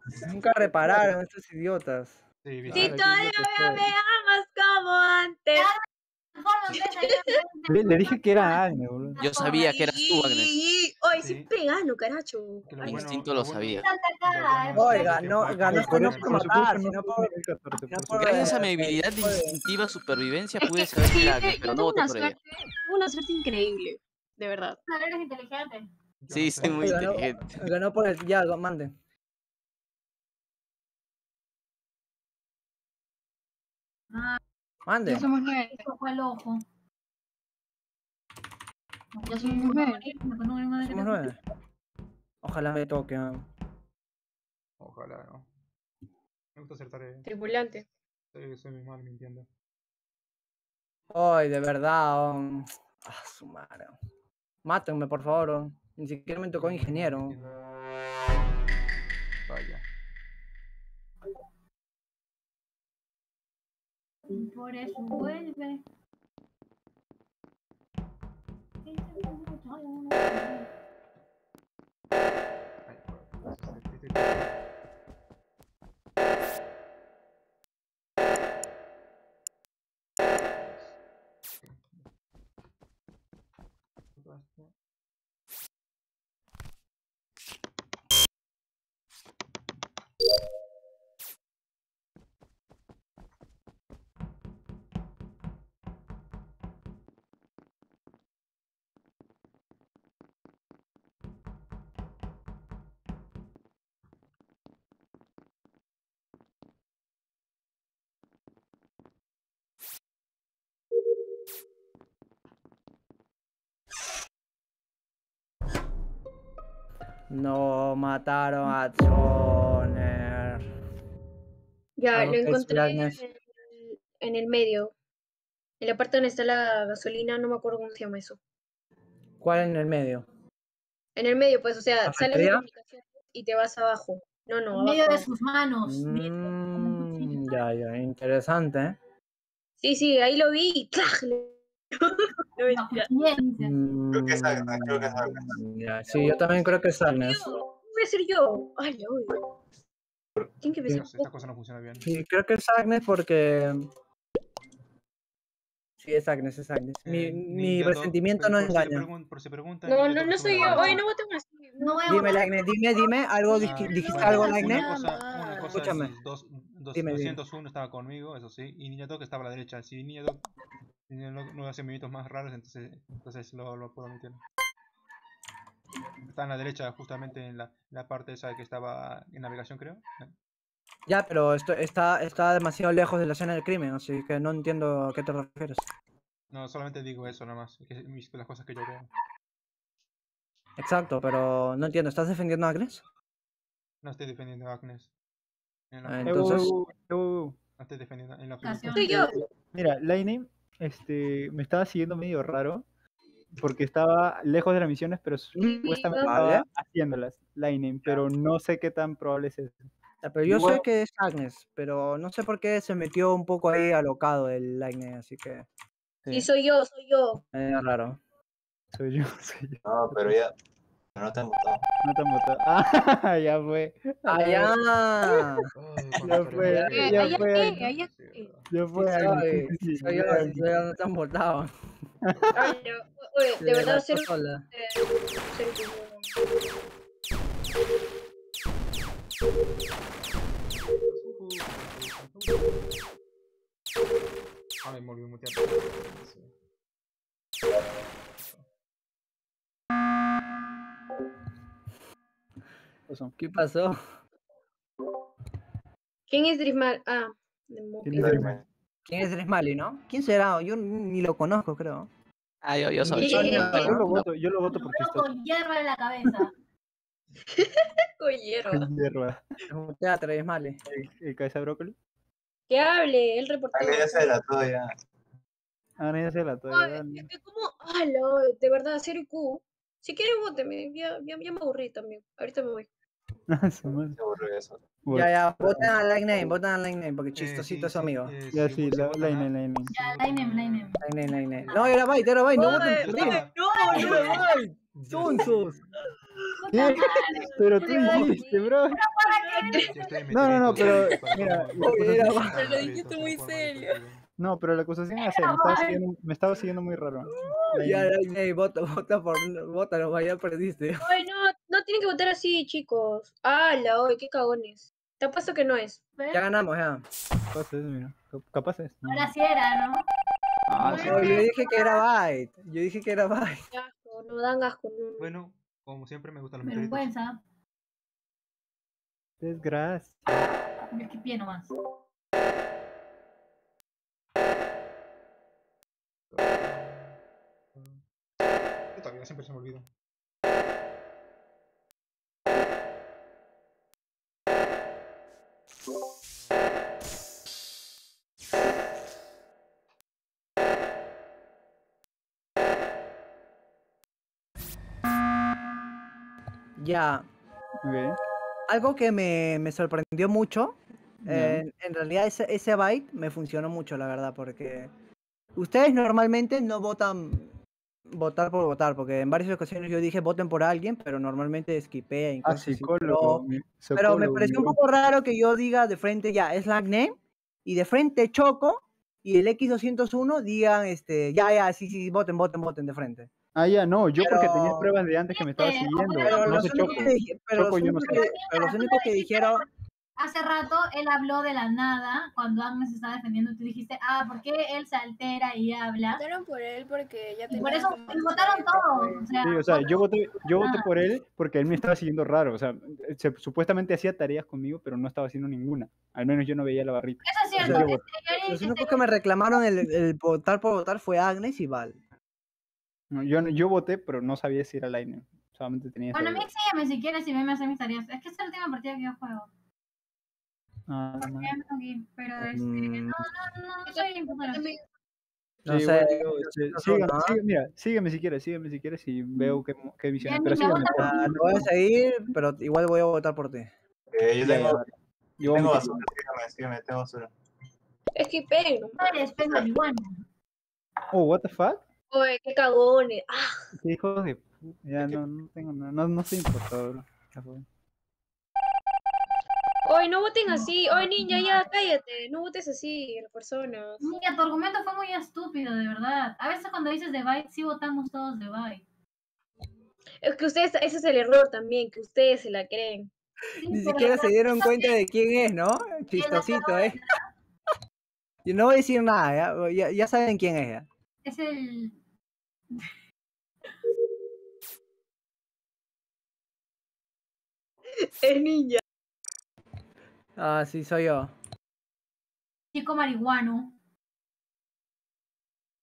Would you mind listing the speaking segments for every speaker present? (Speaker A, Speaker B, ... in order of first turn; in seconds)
Speaker A: 0.2-2.2, 14.8-17.3, 17.9-19.6, 26.6-28.9, 34.9-35.2, 40.8-41.4, 42.4-43.5, 51.1-54.0, 54.6-57.4, 117.3-120.7, 122.1-123.2, 129.4-130.3, 132.1-132.7, 135.9-139.0, 143.6-147.5, 152.0-153.9, 156.0-159.1, 162.1-164.9, 165.7-166.1, 166.9-167.4, 181.1-185.9, 190.8-193.0, 196.1-196.7, 206.1-206.7, 210.2-215.7, 217.5-218.2, 224.3-225.7, 226.3-227.2, 229.0-231.7, 233.6-234.7, 253.4-254.0, 259.1-262.1, 263.2-264.1, 269.7-270.8, 285.1-288.4, 291.0-295.6, 301.8-302.7, 307.7-311.1, 316.3-317.1, 320.9-323.6, 356.8-357.3, 358.7-364.9, 365.6-367.5, 368.1-373.4, 373.9-383.3, 384.2-384.9, 386.2-389.6, 407.6-412.0, 422.6-423.2, 425.7-427.4, 430.9-433.7, 463.7-467.0, 468.4-470.9, 480.4-481.3
Speaker B: 2.5-3.0, 11.2-11.5, 12.6-16.6, 26.2-27.3, 44.8-45.5, 46.5-47.3, 48.3-49.5, 56.5-57.6, 59.5-59.9, 72.9-74.5, 80.6-81.0, 81.6-82.1, 84.2-84.7, 150.8-152.1, 157.1-161.1, 163.6-170.5, 171.1-174.4, 176.3-180.3, 186.5-189.1, 194.0-195.1, 195.9-196.7, 197.8-199.4, 225.8-228.7, 241.0-242.8, 244.8-246.5, 248.4-248.7, 287.4-291.0, 292.6-296.0, 299.8-304.2, 325.2-327.1, 336.3-337.2, 337.7-338.0, 338.9-339.9
Speaker C: 2.7-3.9, 7.7-9.2, 15.7-18.6, 196.2-197.6, 199.7-202.8, 203.6-209.9, 210.4-210.8, 216.2-216.5, 218.9-220.4, 222.0-224.7, 226.2-227.8, 228.7-230.8, 232.2-232.6, 253.1-253.3, 258.0-258.6, 263.0-265.3, 268.7-269.4, 270.9-272.0, 276.0-277.3, 283.5-284.2, 285.0-286.0, 288.5-289.9, 295.1-295.8, 296.7-299.0, 300.3-302.5, 304.4-308.1, 317.5-319.3, 320.7-321.4, 329.4-330.2, 357.8-358.2, 361.2-361.6, 372.4-374.8, 383.6-388.3, 399.4-408.0, 413.1-416.5, 420.9-421.5, 425.6-431.7, 434.4-436.1, 441.1-441.8, 443.8-447.6
Speaker D: 2.7-5.7, 7.0-7.3, 9.3-13.0, 20.6-24.8, 35.1-35.8, 39.3-40.1, 47.2-47.9, 122.0-124.9, 125.8-128.4, 131.2-135.3, 139.8-143.1, 147.1-149.4, 150.6-151.3, 159.9-162.4, 198.9-199.4, 205.6-206.4, 216.3-217.4, 226.7-228.5, 232.6-236.3, 256.3-258.4, 263.3-263.7, 267.5-268.9, 272.7-274.3, 276.7-282.9, 292.5-294.6, 296.7-299.9, 307.3-307.7, 311.0-316.0, 323.7-325.3, 423.9-424.8, 438.1-439.6, 442.1-443.6, 449.9-454.1, 460.2-463.1, 478.0-478.8
Speaker E: 5.5-5.8, 6.4-9.7, 13.8-15.3, 24.9-25.9, 34.1-34.4, 35.2-36.6, 39.2-41.4, 64.3-65.8, 68.8-70.7, 134.7-137.6, 142.7-143.8, 160.7-160.9, 161.8-162.6, 198.6-199.4, 263.2-264.0, 264.7-266.5, 289.9-292.1, 293.6-294.5, 296.6-300.2, 305.2-306.0, 316.2-316.5, 319.1-320.1, 320.8-322.0, 326.6-327.4, 330.3-331.7, 385.3-387.2, 388.0-389.7, 390.2-396.2, 397.5-400.9, 407.2-409.1, 416.1-419.5, 421.2-424.7, 430.2-431.7, 439.0-440.2, 450.5-451.7, 454.0-458.8, 463.6-465.0, 466.1-467.2, 471.2-472.0, 482.7-483.7
Speaker F: 9.2-10.5, 12.8-13.9, 18.2-22.4, 26.3-27.6, 262.6-264.2
Speaker G: 144.1-145.6, 219.8-220.5, 221.2-221.8, 258.2-258.6, 273.7-274.9, 284.1-285.0, 434.1-434.9, 435.4-437.3
Speaker H: 163.6-165.9, 302.5-304.0, 396.2-399.4